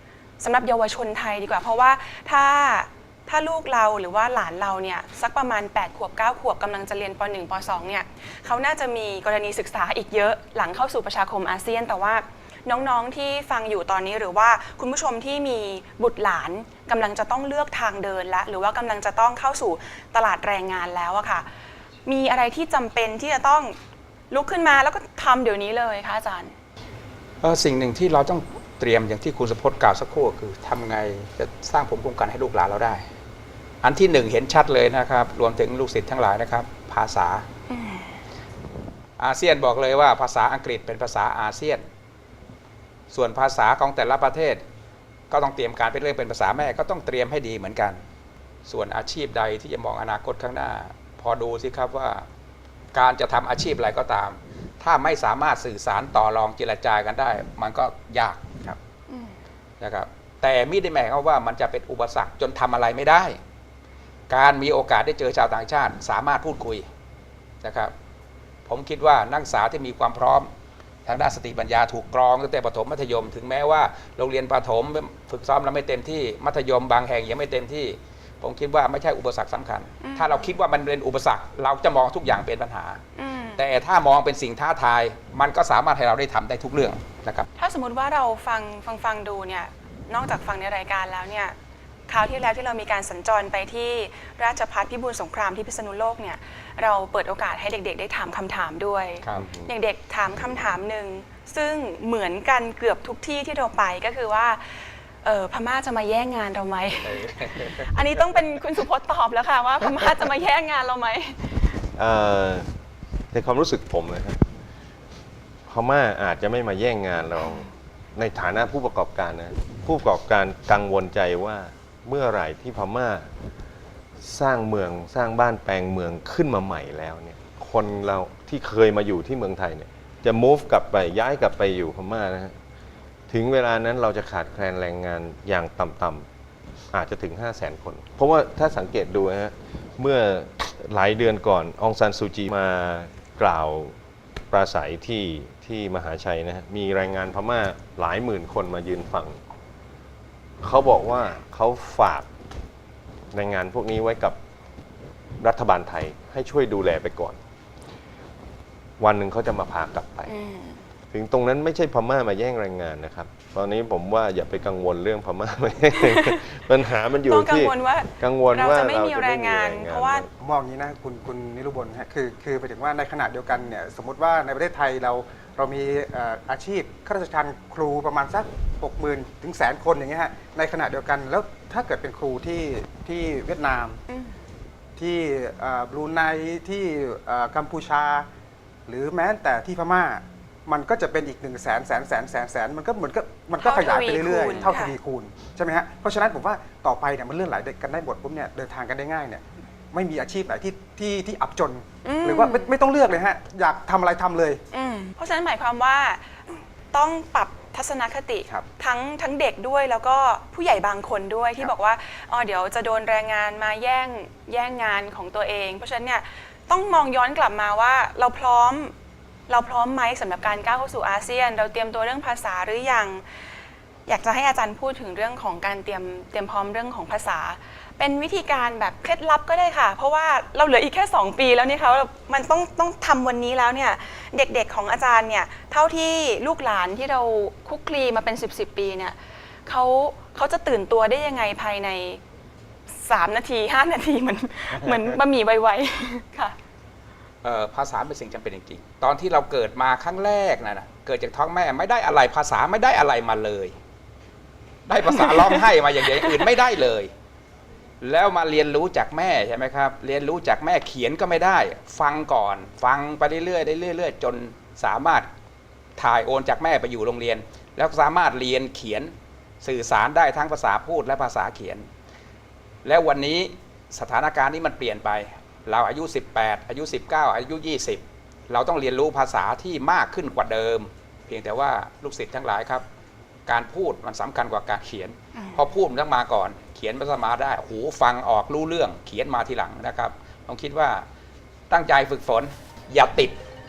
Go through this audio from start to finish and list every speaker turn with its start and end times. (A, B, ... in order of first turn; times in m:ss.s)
0:00.4-0:21.5 A
0:22.0-0:23.8 A
0:24.3-0:26.6 A
0:27.4-0:33.0 B
0:33.8-0:37.4 B
0:37.7-0:38.1 A
0:39.2-0:41.8 B
0:43.1-0:44.6 B
0:45.3-0:48.0 B
0:48.7-0:52.3 B
0:52.9-0:58.8 B
0:59.8-1:03.4 B
1:04.3-1:06.9 B
1:07.6-1:07.9 B
1:08.7-1:10.5 B
1:11.0-1:23.0 B
1:20.0-1:20.5 A
1:23.2-1:23.6 A
1:23.6-1:27.5 B
1:27.6-1:31.6 A
1:32.1-1:51.7 A
1:47.2-1:47.8 B
1:52.0-1:52.7 C
1:53.3-1:54.4 C
1:55.7-2:03.3 C
2:04.2-2:12.6 C
2:13.3-2:16.3 C
2:16.9-2:24.0 C
2:24.5-2:29.4 C
2:30.6-2:32.3 C
2:33.3-2:34.4 C
2:35.4-2:37.4 C
2:39.0-2:40.3 C
2:40.3-2:40.8 A
2:41.1-2:50.3 C
2:46.0-2:46.4 A
2:47.3-2:50.3 A
2:50.4-3:04.0 D
3:04.1-3:04.4 A
3:05.0-3:08.3 D
3:08.9-3:24.6 D
3:13.6-3:15.0 A
3:22.0-3:22.7 A
3:24.7-3:38.9 A
3:39.5-3:43.2 A
3:44.1-4:02.2 A
4:02.9-4:06.6 A
4:07.4-4:13.8 B
4:14.9-4:17.1 B
4:15.2-4:15.7 A
4:18.0-4:25.3 B
4:26.0-4:31.9 B
4:32.8-4:42.8 B
4:43.5-4:51.1 B
4:45.4-4:45.6 A
4:51.7-4:53.4 B